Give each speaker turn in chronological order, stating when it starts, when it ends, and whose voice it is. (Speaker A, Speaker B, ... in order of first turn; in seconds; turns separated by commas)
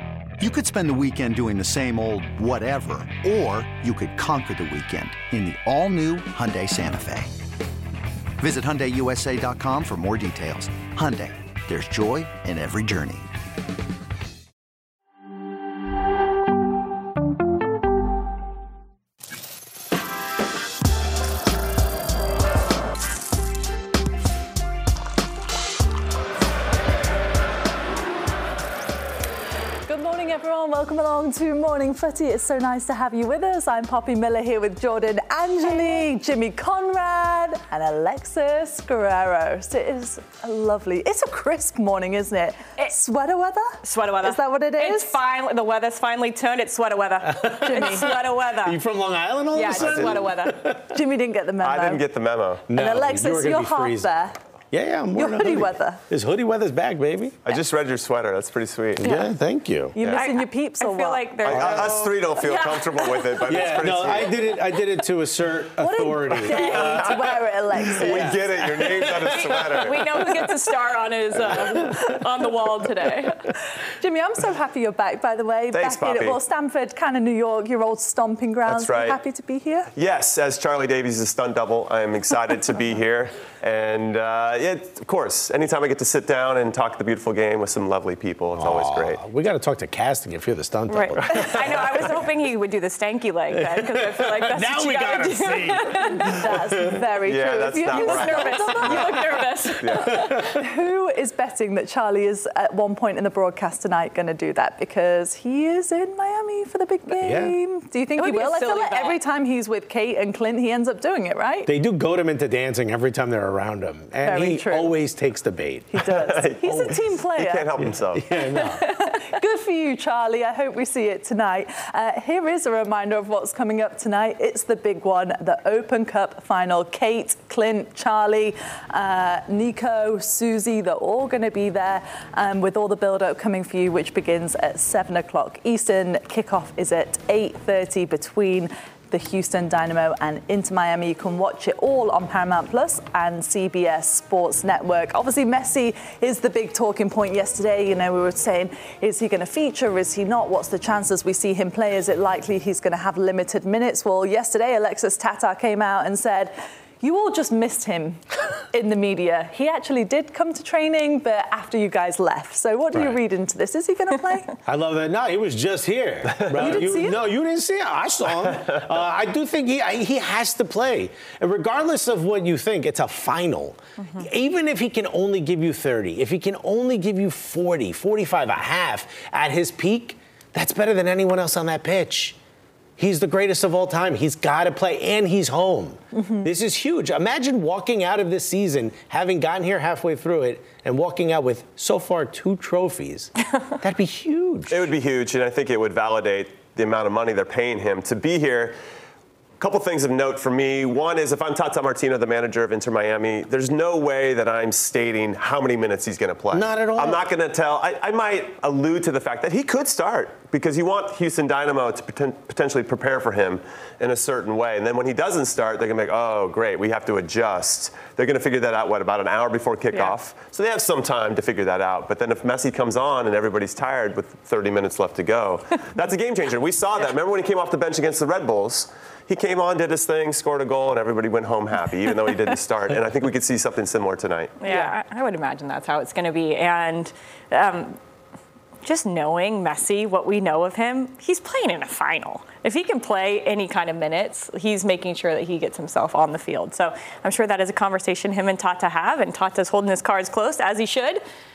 Speaker A: 0.4-7.3, Speaker A: 8.4-13.3, Speaker B: 29.9-45.2, Speaker C: 43.8-48.8, Speaker D: 47.2-51.0, Speaker B: 47.6-48.1, Speaker C: 49.5-50.6, Speaker E: 49.7-50.3, Speaker B: 50.9-52.0, Speaker E: 51.6-52.6, Speaker D: 52.7-54.1, Speaker B: 52.7-54.4, Speaker D: 54.7-57.4, Speaker B: 55.1-56.0, Speaker E: 57.5-59.1, Speaker D: 59.0-60.0, Speaker B: 60.0-61.3, Speaker C: 60.1-63.8, Speaker E: 61.4-64.4, Speaker D: 61.5-62.0, Speaker D: 63.5-67.3, Speaker B: 65.8-68.6, Speaker E: 66.5-70.5, Speaker D: 67.9-70.0, Speaker C: 69.2-73.4, Speaker D: 71.4-72.1, Speaker B: 74.0-79.9, Speaker E: 75.7-76.4, Speaker E: 78.7-79.2, Speaker E: 79.9-89.2, Speaker D: 88.5-92.1, Speaker C: 90.9-96.4, Speaker E: 91.3-91.8, Speaker D: 93.5-96.5, Speaker B: 96.1-111.7, Speaker E: 97.2-99.1, Speaker C: 97.9-100.1, Speaker E: 99.8-100.4, Speaker D: 100.1-100.4, Speaker D: 107.2-107.6, Speaker C: 108.2-109.2, Speaker D: 111.7-115.9, Speaker B: 114.2-115.0, Speaker B: 115.9-117.9, Speaker E: 116.0-118.3, Speaker D: 117.8-118.8, Speaker B: 118.8-164.5, Speaker D: 162.9-163.2, Speaker D: 164.7-182.4, Speaker B: 166.6-167.3, Speaker D: 183.0-194.9, Speaker B: 186.1-186.5, Speaker E: 194.7-198.8, Speaker E: 199.6-234.6, Speaker D: 206.5-207.2, Speaker C: 234.6-238.0, Speaker C: 238.8-251.2